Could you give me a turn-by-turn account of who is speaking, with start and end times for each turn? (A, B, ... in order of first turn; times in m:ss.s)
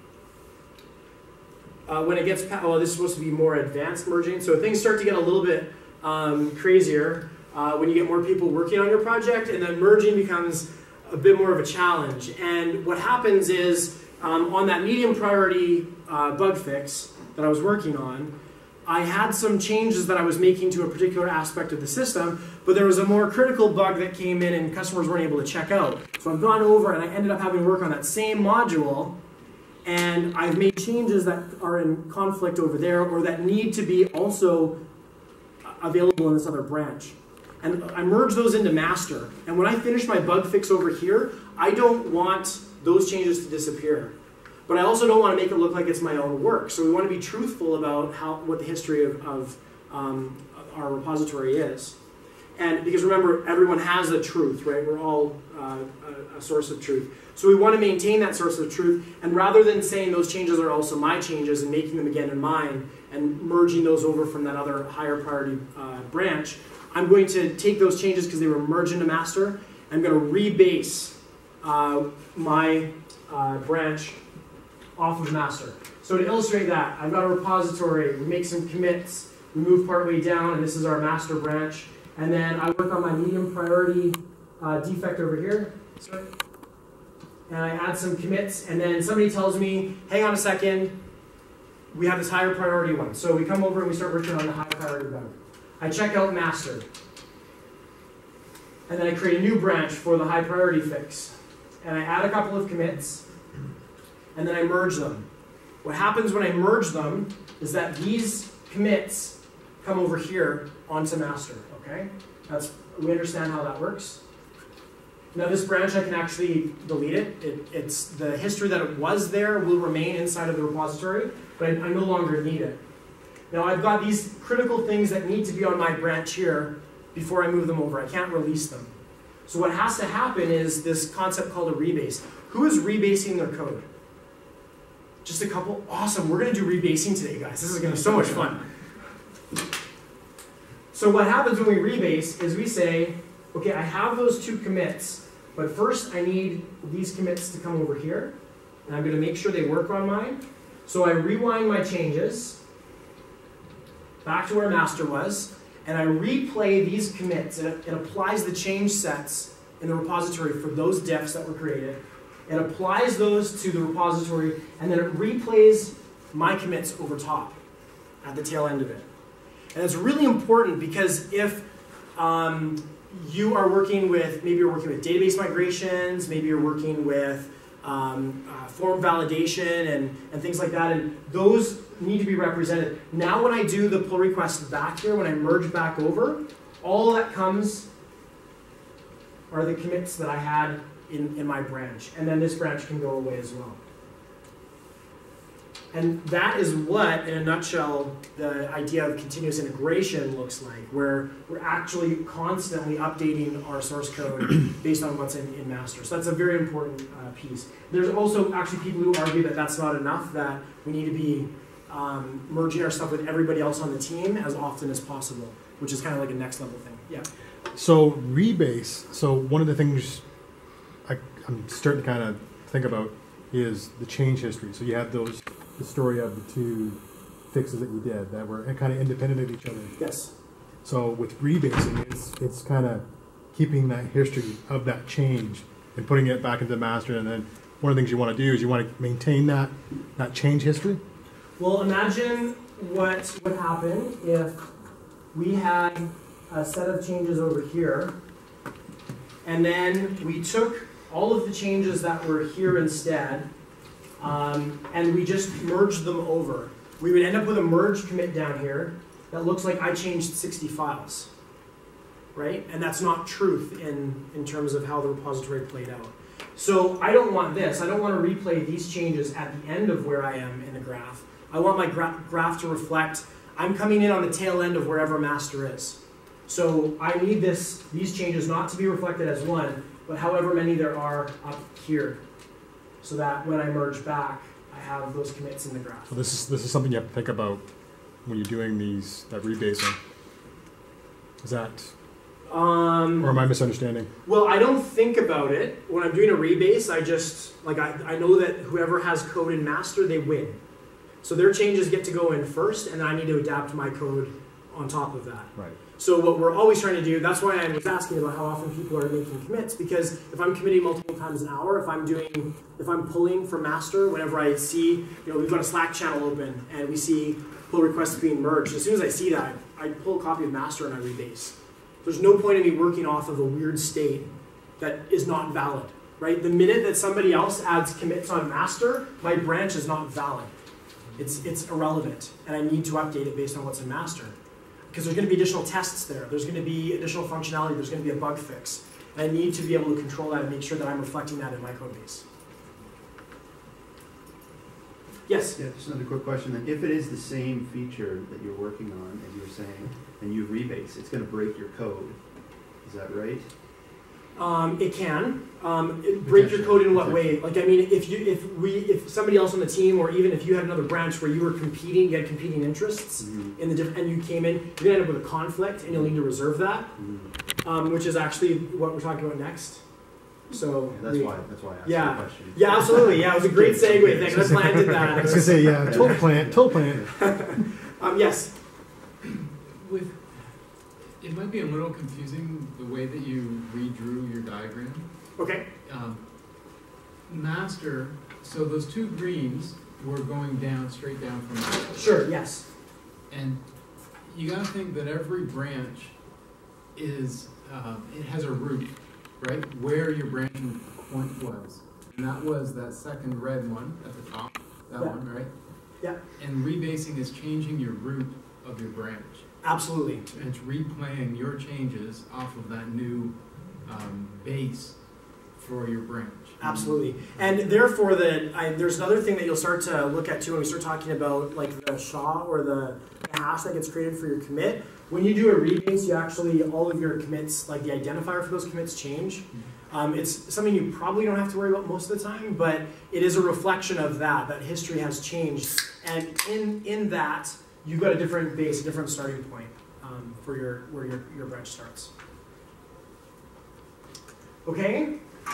0:01.9-0:18.3 A
0:18.8-0:29.2 A
0:29.8-0:34.8 A
0:35.6-0:44.1 A
0:44.7-0:52.0 A
0:52.6-1:14.2 A
1:15.0-1:26.3 A
1:27.5-1:31.0 A
1:31.9-1:36.8 A
1:38.9-1:43.2 A
1:44.3-1:45.2 A
1:45.8-1:54.2 A
1:55.3-2:02.8 A
2:03.5-2:08.9 A
2:09.5-2:13.8 A
2:15.2-2:18.6 A
2:20.9-2:28.3 A
2:28.9-2:32.6 A
2:34.2-2:47.6 A
2:48.2-2:49.0 A
2:49.7-3:07.9 A
3:09.5-3:13.8 A
3:15.9-3:37.3 A
3:37.7-3:40.2 B
3:41.0-3:47.0 B
3:47.5-3:50.0 B
3:50.0-3:50.3 A
3:50.8-4:01.0 B
4:01.6-4:04.6 A
4:05.3-4:08.1 A
4:09.4-4:13.5 A
4:14.2-4:21.3 A
4:22.3-4:42.2 A
4:43.0-4:46.2 A
4:46.1-4:47.6 B
4:48.2-4:50.0 B
4:51.4-4:51.9 B
4:52.5-4:53.4 A
4:53.2-4:54.1 B
4:54.2-5:00.6 A
5:01.2-5:30.5 A
5:31.2-5:34.3 A
5:34.9-5:42.2 A
5:45.3-5:45.6 A
5:45.6-5:52.2 C
5:52.8-5:53.5 C
5:54.4-6:06.9 A
5:56.3-5:57.3 C
6:03.2-6:03.6 C
6:07.0-6:07.3 C
6:07.6-6:09.8 A
6:10.5-6:16.4 A
6:10.9-6:17.1 C
6:15.0-6:17.1 B
6:17.1-6:18.5 A
6:19.8-6:20.2 D
6:21.2-6:25.1 D
6:25.4-6:25.6 A
6:25.8-6:26.2 D
6:27.3-6:32.2 D
6:32.0-6:32.6 A
6:33.3-6:33.6 D
6:34.3-6:36.1 D
6:37.0-6:45.5 D
6:46.4-6:49.4 D
6:49.6-6:50.2 A
6:50.3-6:55.0 D
6:55.6-6:57.0 D
6:56.6-7:22.1 A
7:24.6-7:25.2 A